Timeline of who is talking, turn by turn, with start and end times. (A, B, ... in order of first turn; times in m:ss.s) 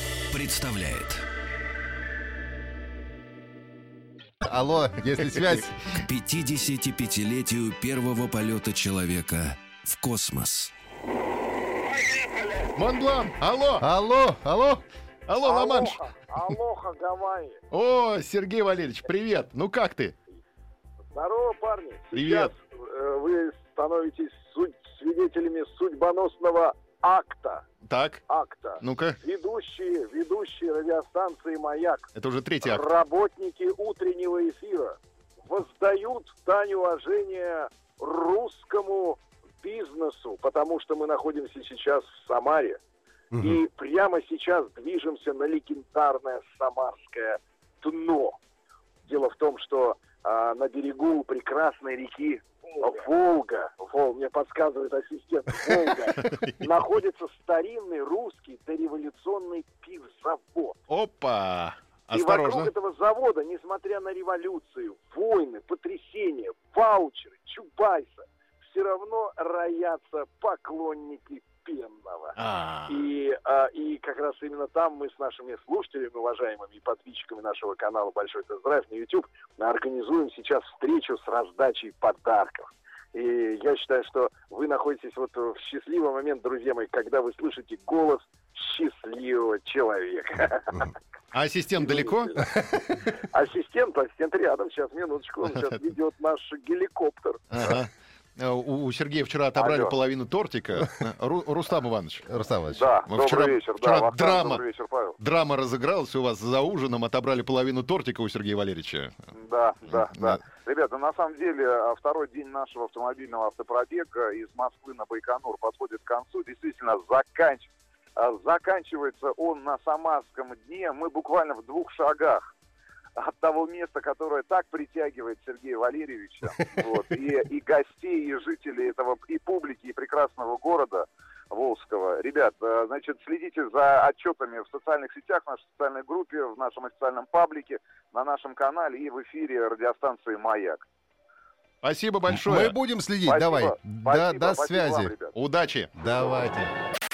0:00.3-0:01.2 A
0:04.4-0:05.9 B
0:05.9-0:10.7 A
0:12.7-0:13.9 C
0:13.8-0:14.8 B
0:15.3-0:16.0 C
0:15.4-0:17.6 D
0:17.7-0:20.1 C
0:21.1-0:27.6 D
0:22.1-0:22.5 C
0:27.8-0:28.2 C
0:28.3-0:32.1 D
0:28.8-0:29.2 C
0:32.1-0:32.8 C
0:32.6-0:42.8 D
0:43.3-0:48.4 D
0:49.0-1:00.8 D
0:56.2-0:56.7 C
1:00.9-1:02.7 C
1:02.1-1:30.9 D
1:12.4-1:13.0 C
1:31.3-1:32.4 C
1:31.8-1:37.6 D
1:37.5-1:42.3 C
1:39.5-1:39.9 E
1:42.3-1:42.8 B
1:42.7-1:45.2 E
1:43.1-1:44.6 C
1:45.2-1:49.3 C
1:49.3-2:02.4 E
1:50.0-1:50.5 C
2:03.2-2:20.8 E
2:21.8-2:22.8 C
2:22.3-2:25.1 B
2:23.2-2:25.3 E
2:25.3-2:25.9 C
2:26.0-2:26.7 B